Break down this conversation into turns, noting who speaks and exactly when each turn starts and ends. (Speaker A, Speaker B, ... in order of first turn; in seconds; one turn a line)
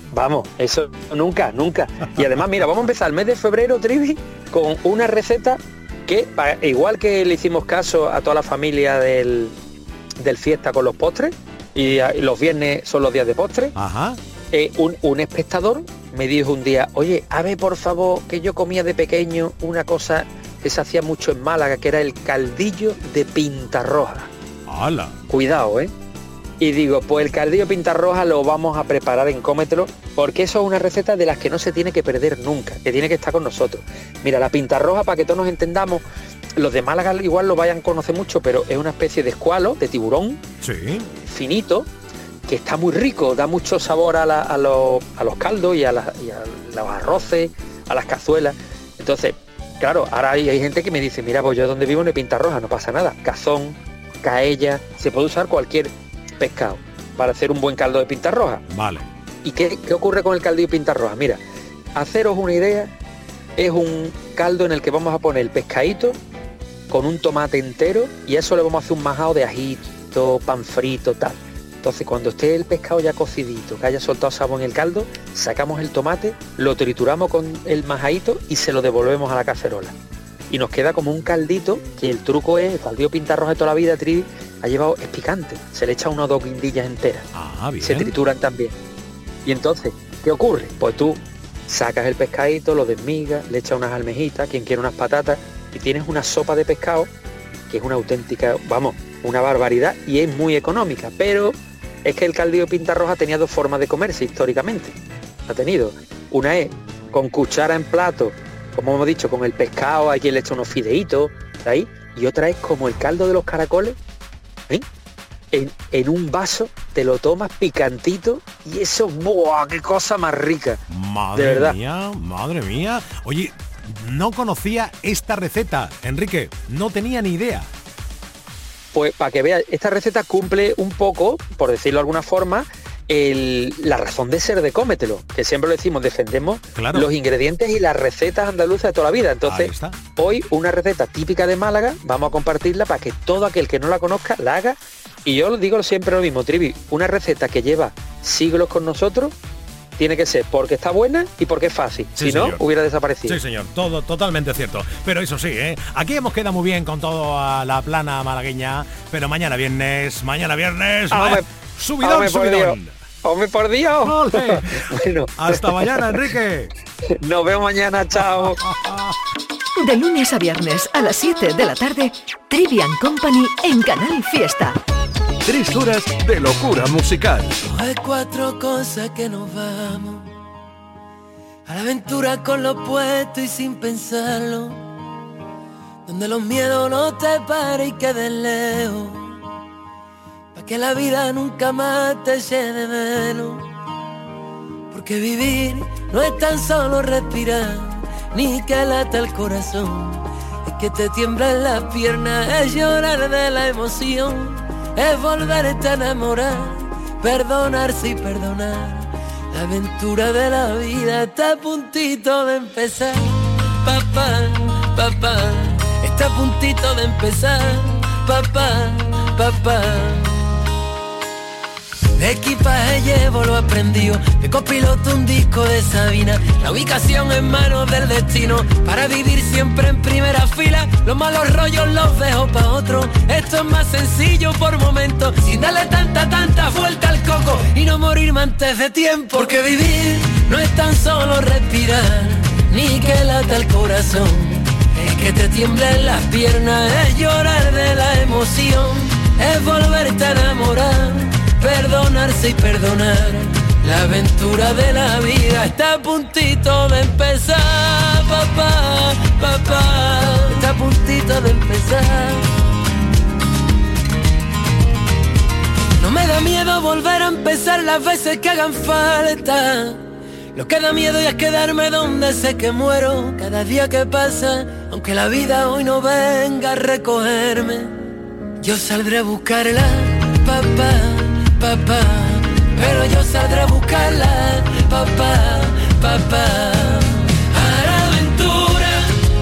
Speaker A: 0.1-9.5
Speaker A: 10.2-13.7
Speaker B: 13.8-14.2
Speaker A: 14.5-24.3
Speaker B: 24.7-25.1
Speaker A: 25.3-25.9
Speaker A: 26.6-36.0
Speaker A: 36.6-40.4
Speaker B: 40.6-41.1
Speaker A: 41.2-41.9
Speaker A: 42.5-58.6
Speaker B: 58.7-59.0
Speaker A: 59.4-61.4
Speaker A: 62.0-62.9
Speaker A: 63.6-66.2
Speaker A: 66.9-79.9
Speaker A: 80.5-87.2
Speaker B: 87.3-88.1
Speaker A: 87.8-88.7
Speaker A: 89.4-97.1
Speaker A: 97.7-104.9
Speaker A: 105.5-114.0
Speaker A: 115.5-120.8
Speaker B: 120.9-127.7
Speaker A: 121.3-121.8
Speaker A: 128.9-149.3
Speaker B: 136.7-137.1
Speaker B: 139.4-140.0
Speaker A: 150.0-153.4
Speaker B: 152.2-152.6
Speaker B: 153.3-162.9
Speaker A: 161.1-161.4
Speaker A: 162.0-166.1
Speaker B: 164.0-166.7
Speaker A: 167.2-168.6
Speaker B: 168.2-169.1
Speaker C: 169.8-174.8
Speaker D: 175.4-177.5
Speaker E: 177.6-180.3
Speaker E: 181.7-184.8
Speaker E: 186.1-189.3
Speaker E: 190.5-193.6
Speaker E: 194.9-220.2
Speaker E: 222.2-262.5
Speaker E: 266.0-270.0
Speaker E: 270.5-277.9
Speaker E: 278.6-289.1